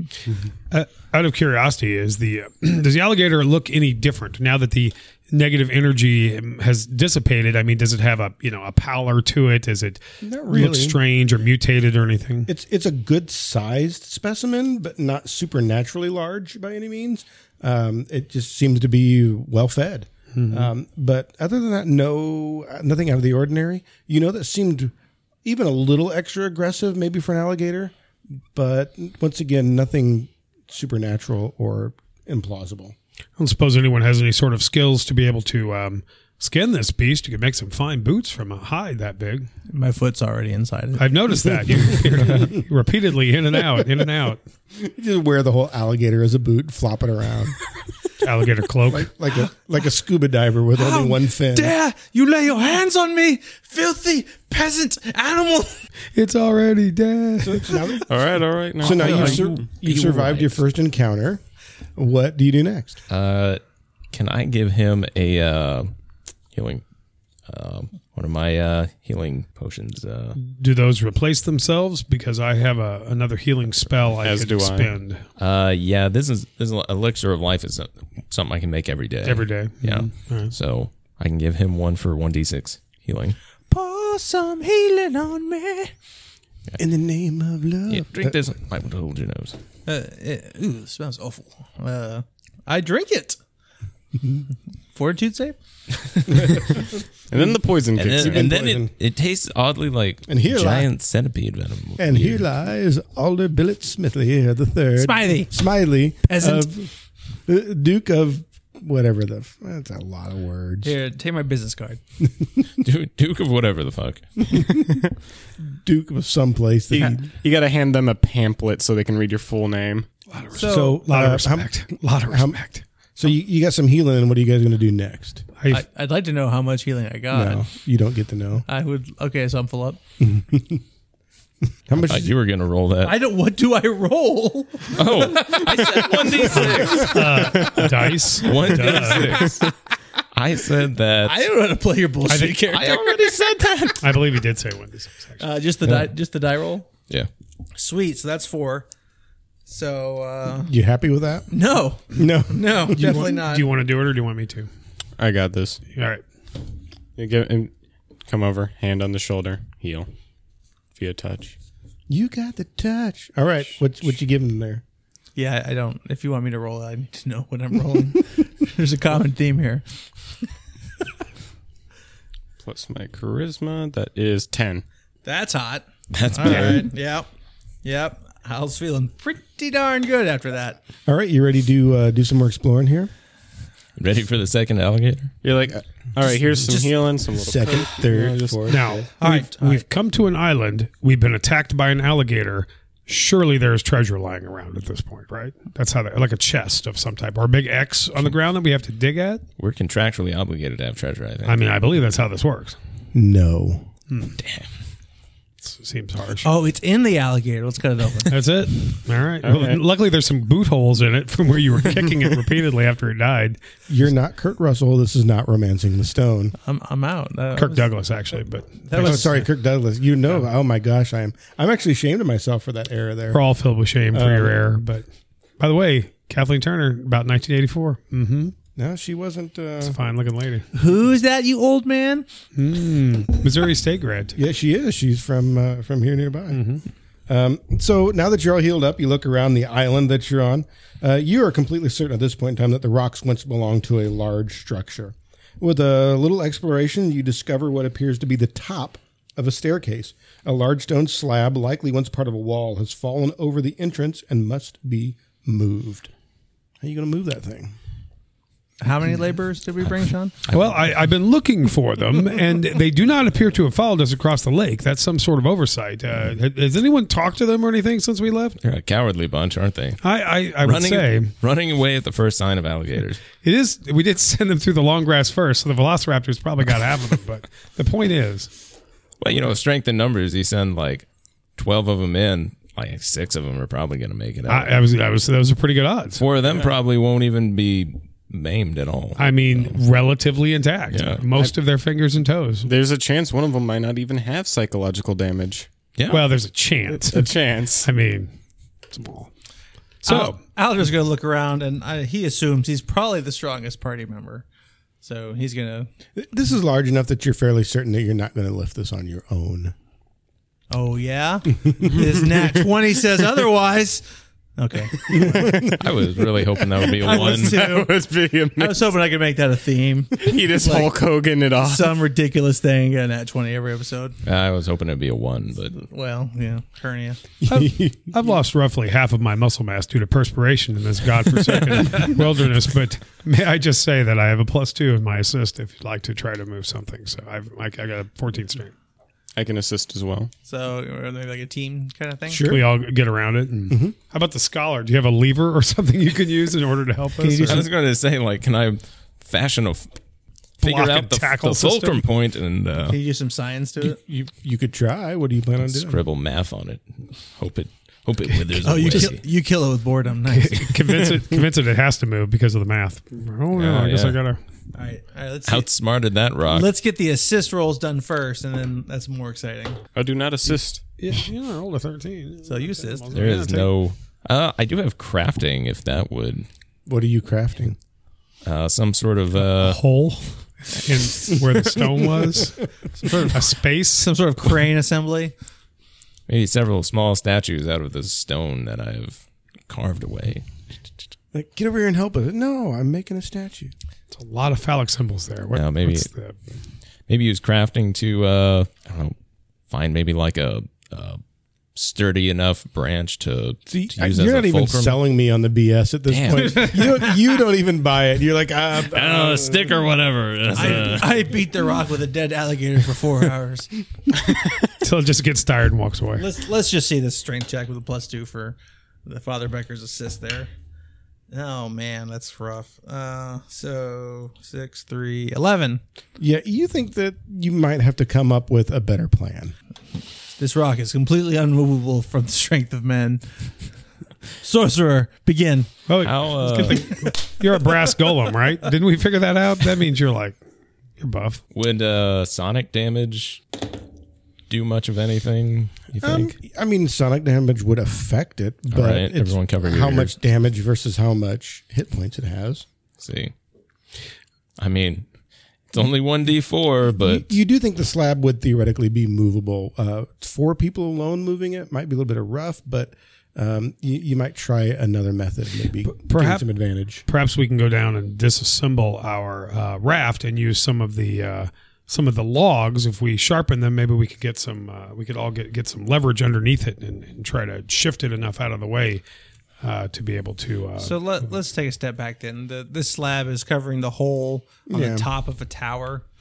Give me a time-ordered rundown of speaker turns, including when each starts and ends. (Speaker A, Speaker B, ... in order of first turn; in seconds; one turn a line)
Speaker A: 0.7-12.5
Speaker B: 10.2-11.0
Speaker B: 12.5-24.9
Speaker A: 20.3-20.7
Speaker B: 25.4-27.9
Speaker B: 28.5-33.0
Speaker A: 33.4-39.5
Speaker C: 39.7-41.3
Speaker A: 41.0-44.4
Speaker B: 44.7-47.6
Speaker A: 48.2-49.1
Speaker B: 48.9-51.8
Speaker C: 50.8-55.8
Speaker A: 56.1-58.0
Speaker B: 57.4-58.1
Speaker D: 58.1-59.7
Speaker B: 58.8-61.4
Speaker E: 59.0-60.6
Speaker B: 62.0-63.0
Speaker E: 63.1-63.6
Speaker E: 64.1-65.9
Speaker E: 66.5-66.8
Speaker E: 67.5-70.4
Speaker A: 70.4-75.2
Speaker D: 74.2-74.9
Speaker E: 75.4-83.4
Speaker A: 79.2-80.5
Speaker C: 83.7-85.9
Speaker B: 86.8-88.4
Speaker E: 87.9-89.6
Speaker C: 89.9-93.4
Speaker C: 95.0-96.6
Speaker B: 96.3-98.9
Speaker D: 97.3-98.5
Speaker E: 98.0-102.4
Speaker B: 100.3-100.9
Speaker B: 102.0-106.9
Speaker C: 105.0-105.5
Speaker C: 106.2-106.7
Speaker B: 107.5-110.9
Speaker C: 110.8-112.0
Speaker B: 112.2-112.8
Speaker E: 112.8-114.6
Speaker B: 114.5-115.0
Speaker B: 115.6-117.3
Speaker D: 116.9-120.1
Speaker A: 120.3-122.8
Speaker C: 120.5-121.0
Speaker B: 120.7-122.6
Speaker B: 123.2-125.5
Speaker A: 125.6-125.8
Speaker C: 125.7-127.7
Speaker B: 127.3-128.7
Speaker C: 128.7-130.0
Speaker B: 130.2-130.8
Speaker B: 131.9-132.3
Speaker E: 132.0-133.2
Speaker C: 133.0-137.2
Speaker E: 134.9-139.7
Speaker A: 136.5-139.6
Speaker D: 137.5-138.2
Speaker C: 139.4-139.7
Speaker E: 140.3-141.5
Speaker C: 141.2-144.0
Speaker A: 142.3-142.7
Speaker E: 142.7-143.9
Speaker A: 144.0-145.4
Speaker C: 145.4-146.9
Speaker E: 145.8-146.1
Speaker C: 147.8-148.9
Speaker C: 149.7-150.7
Speaker B: 150.7-151.5
Speaker C: 151.5-153.7
Speaker B: 152.1-153.4
Speaker A: 153.0-154.7
Speaker D: 155.2-155.8
Speaker A: 155.9-156.2
Speaker D: 157.2-157.7
Speaker D: 158.2-160.1
Speaker D: 160.9-161.6
Speaker B: 162.1-164.8
Speaker C: 165.4-169.8
Speaker D: 172.6-174.8
Speaker C: 175.2-177.3
Speaker E: 176.1-176.9
Speaker C: 177.8-180.8
Speaker B: 181.1-183.1
Speaker E: 184.0-185.3
Speaker D: 185.4-189.0
Speaker B: 186.2-189.1
Speaker A: 188.7-199.4
Speaker C: 189.2-189.8
Speaker E: 199.6-201.6
Speaker A: 201.4-202.8
Speaker B: 203.1-203.9
Speaker A: 204.1-204.4
Speaker E: 204.4-204.7
Speaker A: 205.6-206.5
Speaker C: 206.4-208.4
Speaker A: 208.3-213.6
Speaker D: 209.4-209.8
Speaker B: 213.9-216.6
Speaker C: 216.6-217.9
Speaker A: 217.5-219.3
Speaker C: 218.8-219.4
Speaker B: 218.9-223.4
Speaker A: 223.3-225.1
Speaker B: 224.1-224.6
Speaker A: 225.6-228.6
Speaker B: 228.8-230.0
Speaker A: 229.8-230.7
Speaker C: 230.8-232.3
Speaker A: 232.6-234.4
Speaker B: 234.4-236.7
Speaker A: 236.5-236.8
Speaker B: 237.3-256.1
Speaker B: 256.8-257.8
Speaker C: 258.8-260.3
Speaker E: 260.5-260.7
Speaker A: 260.5-268.6
Speaker E: 268.6-270.0
Speaker A: 270.0-271.3
Speaker E: 270.6-273.2
Speaker A: 273.4-278.5
Speaker E: 279.2-281.1
Speaker E: 281.6-284.8
Speaker A: 284.5-286.2
Speaker E: 286.2-289.8
Speaker A: 289.2-292.7
Speaker E: 290.9-291.3
Speaker D: 292.7-295.7
Speaker E: 296.0-296.2
Speaker A: 296.1-298.3
Speaker D: 296.9-297.9
Speaker A: 298.9-299.3
Speaker A: 300.0-300.4
Speaker C: 300.1-304.4
Speaker C: 305.0-305.9
Speaker B: 306.2-309.7
Speaker C: 310.7-314.1
Speaker D: 311.8-312.7
Speaker C: 314.6-315.4
Speaker D: 315.1-315.9
Speaker B: 315.1-315.7
Speaker E: 315.7-317.6
Speaker D: 316.8-319.0
Speaker C: 317.0-317.9
Speaker C: 318.6-320.9
Speaker D: 320.1-322.0
Speaker C: 321.6-324.2
Speaker E: 324.2-325.8
Speaker C: 325.8-327.2
Speaker B: 327.4-328.1
Speaker A: 327.5-338.7
Speaker D: 339.4-340.3
Speaker C: 340.4-342.5
Speaker B: 342.3-342.7
Speaker A: 342.4-347.6
Speaker B: 343.7-343.9
Speaker C: 347.2-347.6
Speaker E: 347.4-349.9
Speaker A: 350.6-352.0
Speaker E: 350.6-353.0
Speaker C: 352.9-354.0
Speaker B: 353.8-356.0
Speaker E: 355.6-359.2
Speaker C: 358.6-360.8
Speaker A: 360.3-364.4
Speaker E: 363.5-364.2
Speaker C: 364.7-365.7
Speaker E: 365.5-366.7
Speaker C: 366.5-369.8
Speaker D: 369.9-370.8
Speaker A: 371.0-373.7
Speaker C: 372.5-373.2
Speaker E: 373.1-376.5
Speaker B: 376.9-377.8
Speaker E: 378.4-379.8
Speaker A: 379.4-384.1
Speaker C: 384.0-385.3
Speaker E: 386.3-390.4
Speaker B: 391.3-393.7
Speaker A: 394.1-396.4
Speaker E: 395.5-396.1
Speaker E: 397.1-399.1
Speaker E: 399.7-401.2
Speaker E: 401.8-405.0
Speaker B: 403.7-409.8
Speaker E: 406.1-407.0
Speaker E: 408.8-411.2
Speaker C: 410.5-413.7
Speaker A: 414.8-416.3
Speaker C: 416.2-420.5
Speaker C: 421.3-425.8
Speaker B: 426.2-429.5
Speaker C: 430.4-433.3
Speaker C: 434.4-435.7
Speaker A: 435.9-440.4
Speaker E: 436.0-437.0
Speaker A: 441.0-441.4
Speaker E: 441.5-443.4
Speaker E: 444.5-446.4
Speaker B: 446.0-452.6
Speaker E: 448.7-450.2
Speaker E: 453.0-453.3
Speaker E: 454.6-455.1
Speaker E: 455.7-457.3
Speaker B: 456.9-467.1
Speaker A: 465.9-466.4
Speaker A: 467.1-479.0
Speaker A: 479.6-481.0
Speaker C: 480.8-486.0
Speaker B: 484.7-485.1